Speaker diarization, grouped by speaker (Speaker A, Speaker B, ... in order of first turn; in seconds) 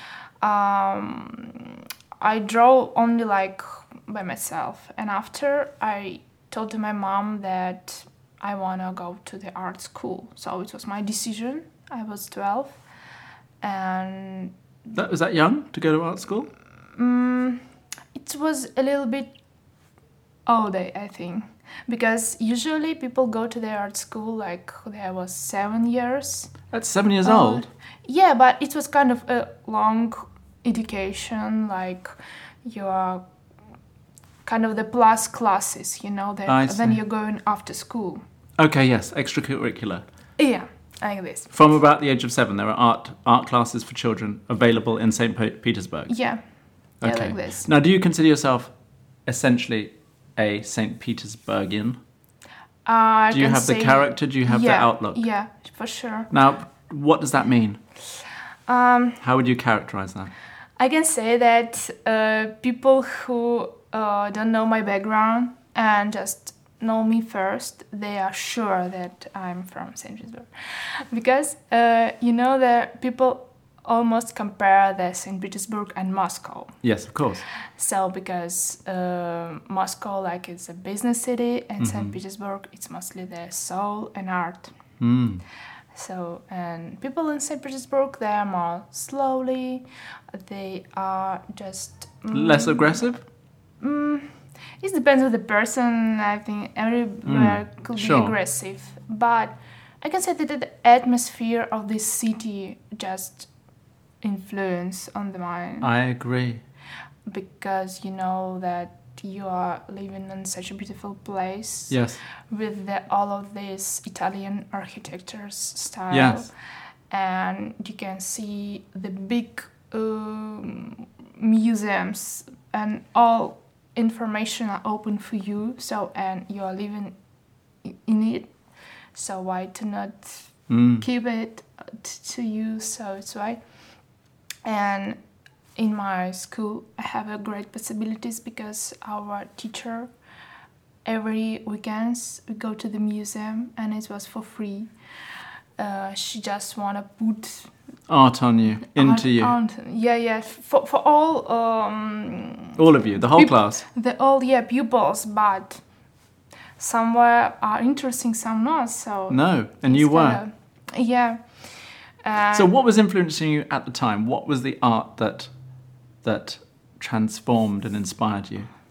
Speaker A: 0.4-12.8, 13.6-14.5, 16.9-17.6, 18.1-19.3, 20.5-26.6, 27.2-32.1, 32.6-33.2, 34.4-38.2, 40.4-41.5, 46.1-46.4, 47.0-47.7, 52.9-56.3, 58.7-59.2, 60.8-76.8, 77.8-84.7, 85.9-93.1, 93.8-103.5, 104.2-105.9, 107.3-116.5, 117.1-127.1, 127.8-128.5, 129.1-133.6, 134.6-135.2, 135.8-140.1, 141.0-144.9, 145.8-147.7, 148.9-155.8, 156.8-161.6, 162.2-162.7
Speaker B: 14.9-16.5, 26.7-27.6, 36.5-37.0, 38.6-40.0, 41.5-46.1, 47.0-48.7, 49.3-52.0, 53.3-55.2, 56.3-57.8, 59.2-60.3, 76.8-77.4, 81.8-82.1, 85.0-85.4, 92.3-93.2, 97.2-98.3, 105.8-106.6, 111.9-112.2, 116.1-116.5, 130.7-131.1, 148.1-149.5, 152.8-153.8, 159.3-160.4, 162.5-165.5, 166.2-168.7